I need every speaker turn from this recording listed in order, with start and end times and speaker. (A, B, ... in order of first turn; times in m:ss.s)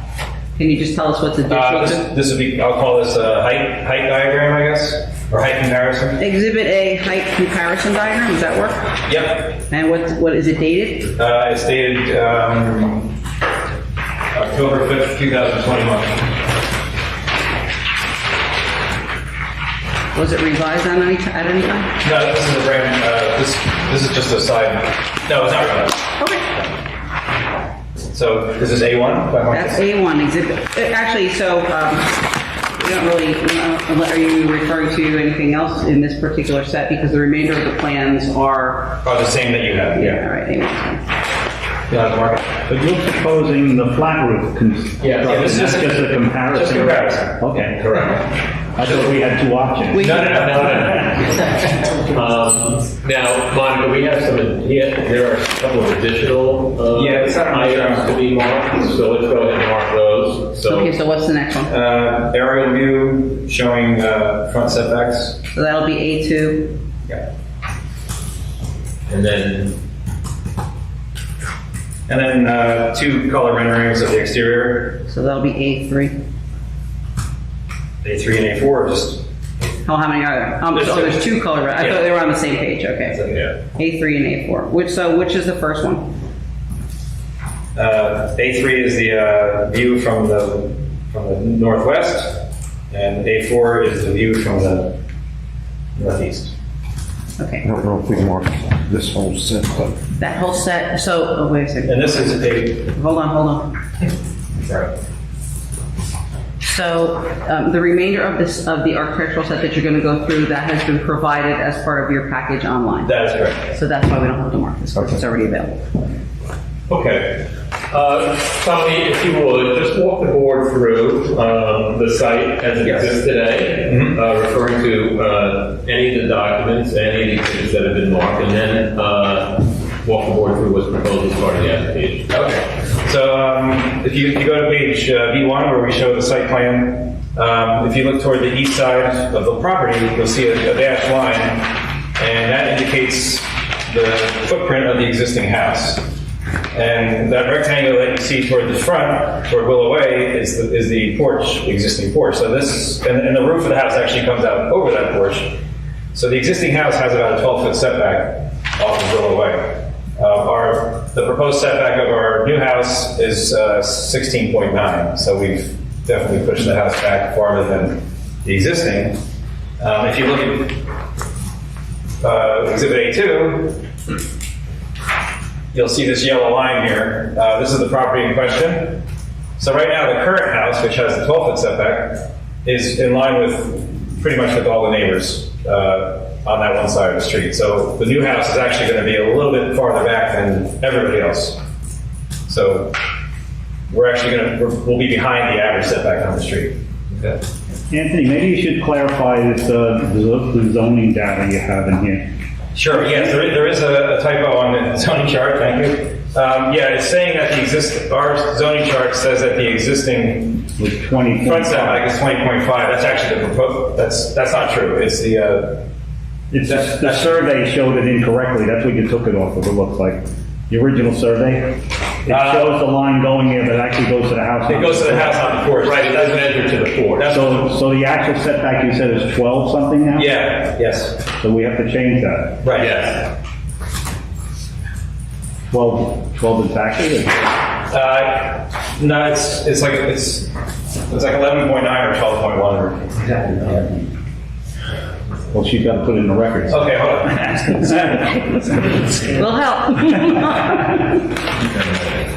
0:00.6-0:02.0 A
0:01.5-0:06.2 B
0:06.2-0:09.0 A
0:09.1-0:09.6 B
0:09.7-0:11.1 A
0:11.1-0:13.1 B
0:14.3-0:16.3 B
0:20.1-0:21.9 A
0:22.0-0:26.1 B
0:26.2-0:26.4 A
0:28.1-0:29.8 B
0:29.5-0:39.0 A
0:39.0-0:40.2 B
0:39.9-0:41.0 A
0:41.9-0:42.4 B
0:42.6-0:48.1 C
0:45.0-0:45.6 D
0:45.2-0:47.3 B
0:46.5-0:47.1 D
0:47.8-0:48.2 D
0:48.7-0:51.2 C
0:49.9-0:50.6 A
0:50.0-1:00.9 D
0:56.9-0:58.1 B
1:00.7-1:01.7 A
1:01.7-1:05.4 B
1:05.5-1:06.8 A
1:09.1-1:09.8 D
1:12.1-1:15.0 B
1:15.1-1:16.2 A
1:18.0-1:19.2 B
1:19.8-1:23.2 A
1:20.7-1:22.1 B
1:23.1-1:23.5 B
1:23.7-1:26.1 A
1:27.8-1:35.0 B
1:36.0-1:36.5 B
1:37.4-1:37.6 A
1:37.6-1:39.9 E
1:40.2-1:42.3 A
1:41.9-1:42.9 B
1:42.9-1:43.7 A
1:44.6-1:44.9 B
1:46.6-1:55.8 A
1:53.0-1:53.7 B
1:56.9-2:12.3 D
2:03.8-2:04.2 B
2:12.3-2:26.1 B
2:26.7-2:35.6 B
2:36.1-2:49.2 B
2:49.8-2:50.8 B
2:52.2-2:53.8 B
2:55.7-2:59.0 B
2:59.6-3:11.6 B
3:12.5-3:12.9 B
3:13.9-3:17.4 B
3:17.9-3:22.3 C
3:22.7-3:30.6 B
3:30.8-3:32.0 C
3:31.4-3:35.8 B
3:36.5-3:45.5 C
3:36.6-3:37.4 B
3:42.3-3:42.7 B
3:44.6-3:47.7 B
3:45.8-3:47.3 D
3:47.3-3:50.3 C
3:50.1-3:51.2 B
3:51.3-3:52.6 C
3:52.6-3:52.9 B
3:52.7-3:53.3 D
3:55.7-3:57.5 C
3:57.9-4:00.5 B
4:01.1-4:03.9 B
4:05.5-4:06.9 C
4:06.7-4:08.3 B
4:07.6-4:08.2 C
4:09.2-4:11.3 A
4:11.6-4:12.0 D